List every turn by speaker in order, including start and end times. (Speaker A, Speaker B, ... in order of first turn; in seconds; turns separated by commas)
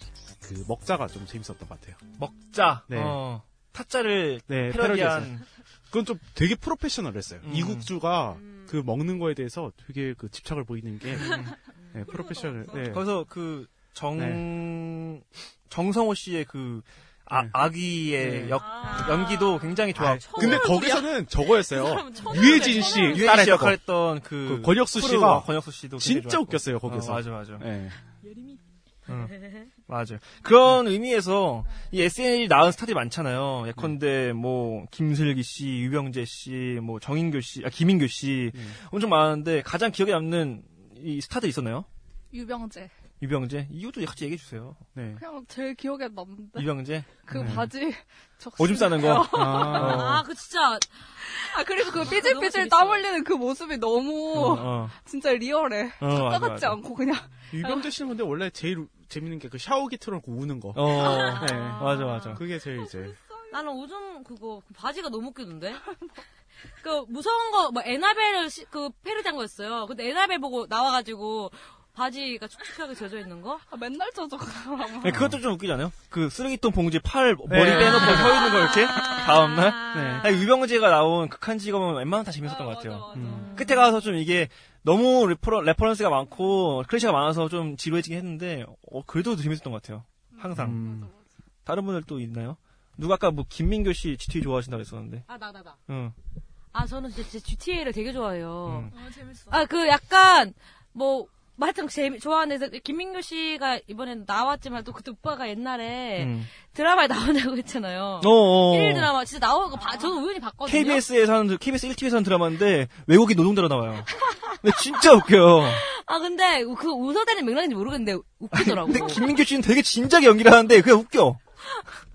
Speaker A: 0.4-2.0, Speaker B: 2.2-5.5, Speaker A: 2.9-3.2, Speaker A: 4.5-5.4, Speaker A: 5.9-13.1, Speaker B: 7.4-7.9, Speaker B: 11.2-11.5, Speaker B: 12.8-20.8, Speaker A: 14.2-14.4, Speaker A: 17.3-18.6, Speaker C: 18.6-19.8, Speaker A: 19.9-28.0, Speaker D: 20.2-23.4, Speaker B: 23.0-27.7, Speaker D: 28.2-28.6, Speaker B: 29.1-41.9, Speaker C: 29.3-29.6, Speaker E: 42.3-42.9, Speaker B: 43.2-44.8, Speaker A: 45.0-45.2, Speaker E: 45.2-46.7, Speaker B: 46.6-47.6, Speaker E: 47.2-50.0, Speaker A: 47.3-47.7, Speaker B: 48.6-50.2, Speaker A: 49.2-50.2, Speaker C: 49.7-53.1, Speaker E: 51.2-57.5, Speaker B: 54.3-55.0, Speaker B: 56.0-56.8, Speaker A: 57.5-63.2, Speaker B: 60.7-62.5, Speaker C: 60.9-62.4, Speaker C: 63.5-66.0, Speaker C: 66.8-73.6, Speaker E: 73.7-75.3, Speaker B: 75.0-90.8, Speaker A: 75.1-75.3, Speaker A: 77.5-78.7, Speaker C: 77.7-80.5, Speaker A: 79.9-80.3, Speaker A: 83.1-83.5, Speaker C: 83.2-83.8, Speaker E: 90.3-91.2, Speaker A: 90.5-91.1, Speaker B: 91.7-95.3, Speaker C: 95.3-95.8, Speaker B: 95.9-96.2, Speaker C: 96.7-99.0, Speaker B: 98.7-98.9, Speaker D: 98.9-99.6, Speaker C: 99.5-111.0, Speaker B: 106.2-106.5, Speaker B: 108.2-109.1, Speaker B: 110.7-115.8, Speaker C: 114.1-114.6, Speaker C: 115.7-119.3, Speaker B: 118.5-121.4